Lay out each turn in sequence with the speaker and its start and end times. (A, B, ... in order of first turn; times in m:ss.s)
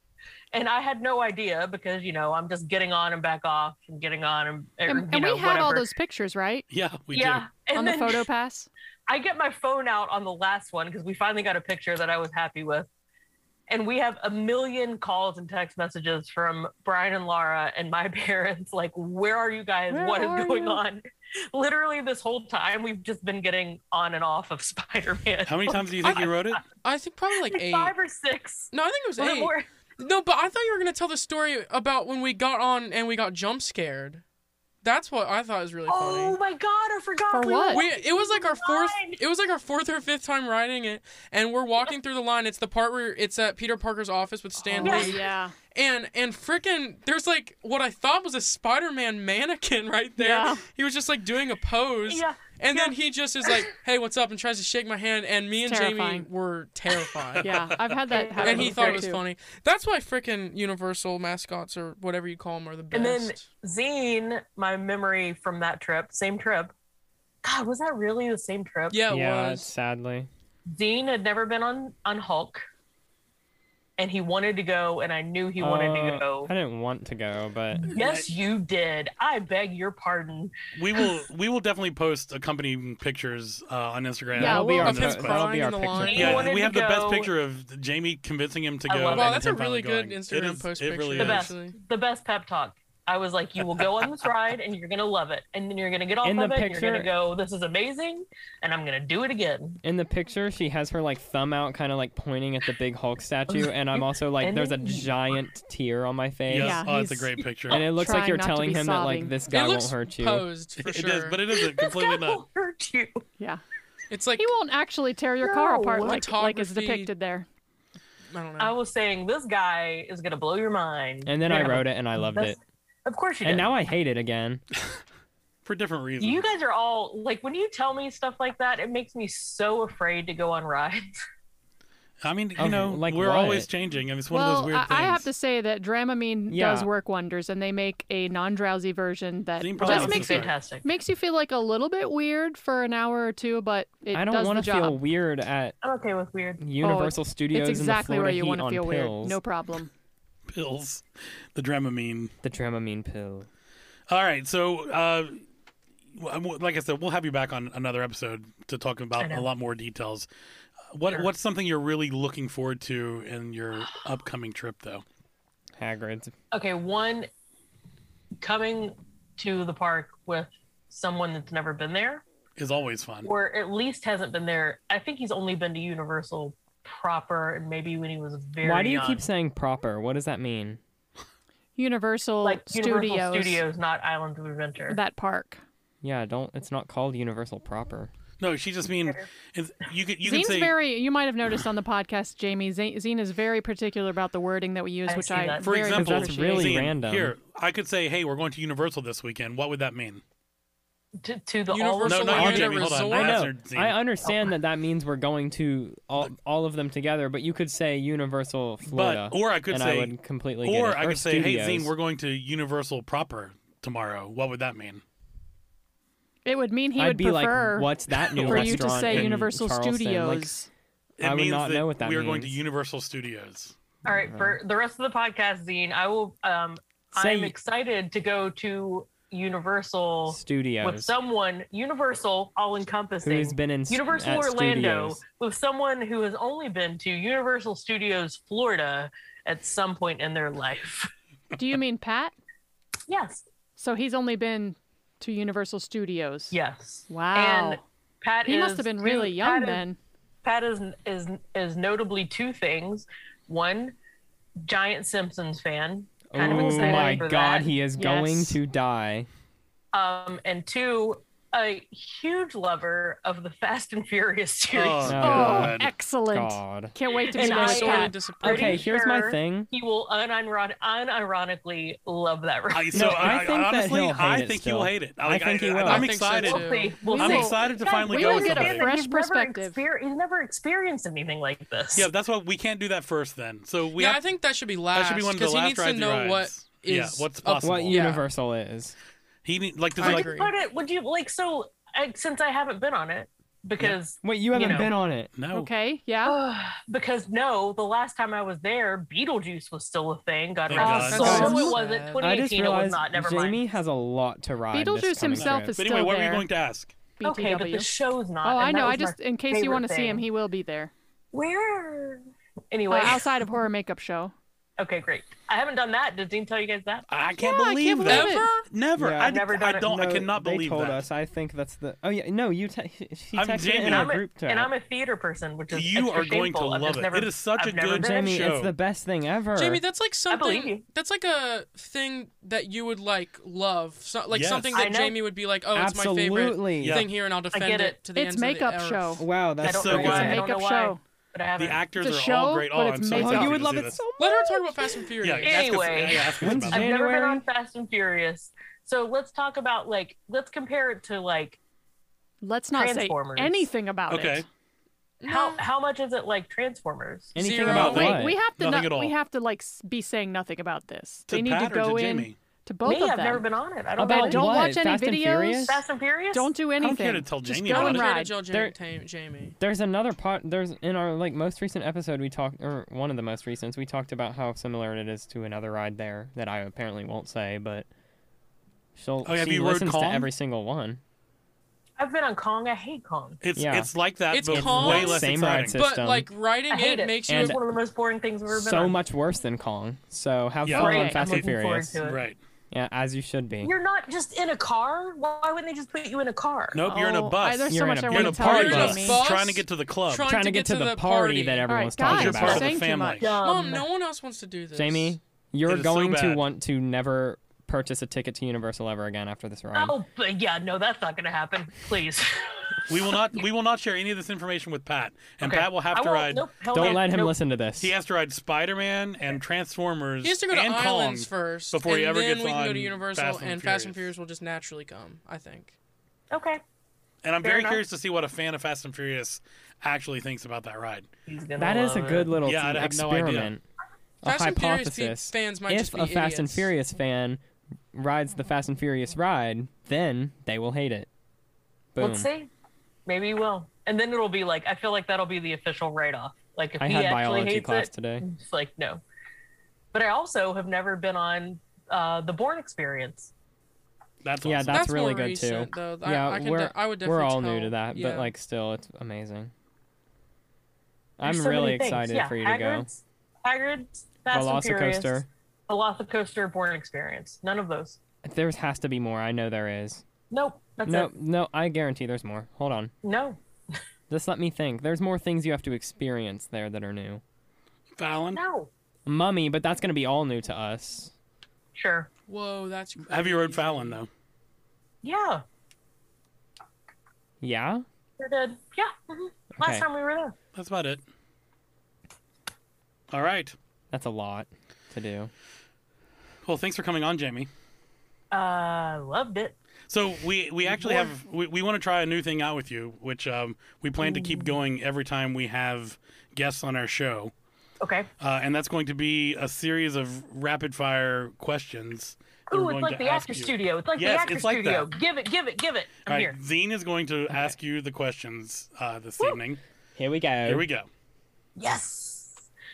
0:00.5-0:05.9 A
0:04.9-0:06.6 B
0:06.7-0:07.5 C
0:07.1-0:08.2 A
0:07.7-0:08.7 B
0:09.1-0:12.9 A
0:13.7-0:26.6 A
0:19.9-0:20.8 B
0:25.5-0:26.6 C
0:26.0-0:27.9 D
0:27.4-0:29.6 A
0:28.7-0:34.2 D
0:34.8-0:36.4 D
0:35.9-0:39.2 A
0:37.3-0:37.8 B
0:37.7-0:57.5 D
0:44.6-0:45.5 B
0:44.8-0:45.2 A
0:50.2-0:50.6 B
0:52.1-0:52.9 A
0:55.7-0:56.3 B
0:57.3-0:58.0 C
0:57.4-0:59.2 B
0:58.1-0:59.1 A
0:58.4-1:03.4 D
1:02.9-1:06.7 A
1:07.4-1:09.0 A
1:08.9-1:09.7 D
1:09.1-1:10.3 E
1:10.7-1:12.6 A
1:14.0-1:16.5 A
1:15.6-1:17.9 E
1:17.8-1:21.1 A
1:17.9-1:18.3 C
1:20.7-1:25.4 C
1:24.4-1:24.9 B
1:24.4-1:26.5 E
1:24.7-1:26.5 D
1:26.0-1:27.3 A
1:26.1-1:31.5 C
1:28.9-1:29.5 A
1:29.1-1:31.8 D
1:31.2-1:39.8 A
1:36.2-1:37.1 E
1:39.8-1:46.8 E
1:43.5-1:45.1 A
1:46.5-1:47.8 C
1:46.6-1:49.4 B
1:47.7-1:50.5 E
1:49.5-1:51.4 D
1:50.8-1:52.4 C
1:51.5-1:53.2 A
1:54.1-1:54.5 D
1:54.4-1:57.4 B
1:55.4-1:56.2 A
1:56.0-1:57.1 D
1:58.3-1:58.7 D
1:58.6-2:03.7 A
2:01.2-2:02.6 E
2:03.4-2:04.6 E
2:05.6-2:06.5 C
2:06.2-2:11.0 A
2:12.2-2:15.3 C
2:12.6-2:13.7 E
2:14.3-2:25.0 B
2:16.5-2:16.9 E
2:19.6-2:20.5 C
2:19.8-2:20.8 A
2:24.1-2:25.8 E
2:25.8-2:26.6 A
2:26.6-2:29.4 E
2:26.8-2:29.9 B
2:30.5-2:32.3 C
2:32.4-2:33.5 E
2:34.1-2:35.4 C
2:36.1-2:40.3 C
2:39.2-2:39.5 A
2:40.9-2:45.0 C
2:45.8-2:46.3 E
2:46.5-2:47.3 A
2:48.4-2:52.2 A
2:52.6-2:53.3 C
2:53.2-2:59.2 A
2:58.6-3:00.8 E
3:01.8-3:03.6 B
3:02.4-3:05.0 A
3:04.9-3:05.6 B
3:06.0-3:08.1 E
3:08.4-3:10.7 C
3:10.2-3:16.8 B
3:15.1-3:15.7 A
3:15.6-3:20.2 C
3:15.9-3:17.3 E
3:21.2-3:23.0 A
3:21.7-3:23.5 D
3:22.0-3:24.0 C
3:23.1-3:31.9 E
3:24.2-3:24.5 A
3:28.8-3:35.0 C
3:36.4-3:40.7 B
3:37.0-3:40.5 E
3:38.2-3:39.4 C
3:41.2-3:43.7 C
3:41.2-3:42.6 E
3:44.0-4:01.1 A
3:44.1-3:44.6 E
3:47.1-3:47.5 E
3:50.3-3:51.1 E
3:53.2-3:55.2 E
4:01.5-4:02.3 B
4:03.1-4:03.4 A
4:03.8-4:06.6 B
4:06.5-4:09.8 A
4:07.1-4:07.8 B
4:08.4-4:10.0 B
4:10.4-4:13.9 A
4:14.6-4:17.7 A
4:16.3-4:19.3 E
4:16.4-4:17.3 B
4:18.0-4:18.6 B
4:19.9-4:25.2 A
4:24.7-4:25.9 C
4:25.0-4:26.9 E
4:25.2-4:28.1 B
4:27.3-4:33.4 A
4:27.4-4:28.9 D
4:28.4-4:29.7 E
4:32.7-4:38.9 C
4:32.9-4:36.1 E
4:35.8-4:37.0 D
4:36.4-4:42.1 A
4:37.0-4:39.8 B
4:41.9-4:44.2 C
4:44.0-4:48.2 D
4:44.9-4:48.2 C
4:47.6-4:48.9 E
4:49.4-4:50.3 C
4:50.0-4:50.5 D
4:50.0-4:54.9 A
4:54.2-4:55.3 E
4:55.3-4:55.7 C
4:55.5-4:56.4 B
4:56.2-5:03.6 A
5:00.7-5:01.6 C
5:00.8-5:01.8 B
5:01.1-5:02.4 D
5:01.2-5:01.6 E
5:02.2-5:05.7 E
5:04.7-5:06.5 B
5:05.3-5:06.9 C
5:07.2-5:07.9 B
5:07.2-5:10.2 A
5:08.4-5:10.9 B
5:11.3-5:13.3 A
5:12.9-5:14.3 B
5:14.8-5:17.1 A
5:17.1-5:21.0 C
5:17.4-5:18.5 B
5:18.0-5:18.6 D
5:19.0-5:24.7 E
5:19.2-5:20.0 A
5:23.3-5:24.1 C
5:23.8-5:28.5 A
5:25.7-5:28.7 C
5:28.0-5:29.8 E
5:29.6-5:39.2 D
5:30.3-5:30.8 A
5:34.3-5:34.8 C
5:34.7-5:35.2 A
5:35.7-5:37.0 E
5:36.8-5:37.1 C
5:37.5-5:37.9 A
5:38.1-5:39.2 B
5:39.2-5:40.4 E
5:39.6-5:40.4 C
5:39.6-5:41.8 A
5:39.9-5:41.0 B
5:41.6-5:44.0 C
5:42.0-5:43.6 B
5:43.1-5:44.9 E
5:44.2-5:45.7 D
5:45.2-5:46.9 C
5:45.4-5:51.6 A
5:46.4-5:47.4 E
5:52.4-5:54.4 B
5:52.7-5:53.7 A
5:54.1-5:54.4 C
5:55.2-5:55.6 D
5:55.3-5:57.4 A
5:57.3-5:58.4 E
5:57.4-5:58.1 D
5:57.6-5:59.1 C
5:57.7-6:03.4 B
6:01.3-6:02.4 C
6:02.8-6:04.6 A
6:04.0-6:05.8 B
6:04.0-6:05.8 E
6:05.7-6:06.5 A
6:06.3-6:08.3 B
6:06.8-6:08.1 C
6:07.7-6:09.6 D
6:09.6-6:17.9 E
6:18.9-6:21.0 E
6:19.2-6:20.3 C
6:22.0-6:23.4 A
6:23.4-6:25.8 C
6:23.6-6:23.9 E
6:24.3-6:27.6 D
6:24.5-6:26.3 E
6:26.7-6:29.0 A
6:27.3-6:27.6 E
6:28.5-6:32.0 E
6:30.6-6:32.4 C
6:30.7-6:32.2 A
6:30.7-6:31.2 B
6:32.7-6:33.7 E
6:33.6-6:36.8 A
6:36.7-6:40.3 C
6:36.8-6:39.2 B
6:37.7-6:39.0 E
6:38.4-6:41.7 D
6:40.2-6:42.7 E
6:41.7-6:43.3 B
6:42.1-6:43.4 C
6:43.2-6:43.8 A
6:43.4-6:45.1 D
6:44.7-6:50.0 E
6:45.6-6:46.4 C
6:49.7-6:52.8 A
6:52.9-6:57.1 C
6:55.4-6:57.4 A
6:56.7-6:57.9 E
6:57.8-7:04.1 C
7:00.2-7:05.7 D
7:06.3-7:06.6 A
7:07.2-7:11.1 C
7:07.4-7:07.8 A
7:11.2-7:12.4 A
7:11.6-7:13.6 E
7:12.4-7:13.5 C
7:14.2-7:16.7 D
7:14.2-7:17.4 E
7:17.9-7:21.1 E
7:21.9-7:22.3 E
7:22.0-7:22.5 A
7:23.0-7:29.0 A
7:26.8-7:28.2 E
7:29.9-7:33.3 A
7:34.2-7:34.8 C
7:34.4-7:39.5 E
7:34.7-7:38.3 D
7:41.2-7:42.9 E
7:41.2-7:48.0 A
7:44.3-7:45.3 E
7:48.2-7:50.0 E
7:50.3-7:51.1 A
7:50.8-7:52.9 E
7:53.0-7:53.4 A
7:54.1-7:57.2 E
7:58.0-7:58.4 C
7:58.3-7:58.7 A
7:59.0-8:01.1 E
8:01.7-8:02.1 A
8:02.3-8:04.0 D
8:03.1-8:04.1 C
8:05.0-8:05.4 A
8:07.4-8:07.8 E
8:08.2-8:10.3 A
8:09.6-8:09.9 E
8:10.5-8:11.0 C
8:13.1-8:13.6 C
8:13.9-8:15.3 E
8:16.4-8:17.5 C
8:18.3-8:19.6 A
8:19.9-8:27.3 C
8:20.6-8:21.1 A
8:24.0-8:24.6 A
8:27.8-8:28.1 A
8:28.2-8:34.9 C
8:32.5-8:36.4 A
8:36.0-8:39.6 C
8:40.0-8:40.6 E
8:40.4-8:40.9 C
8:41.6-8:42.4 A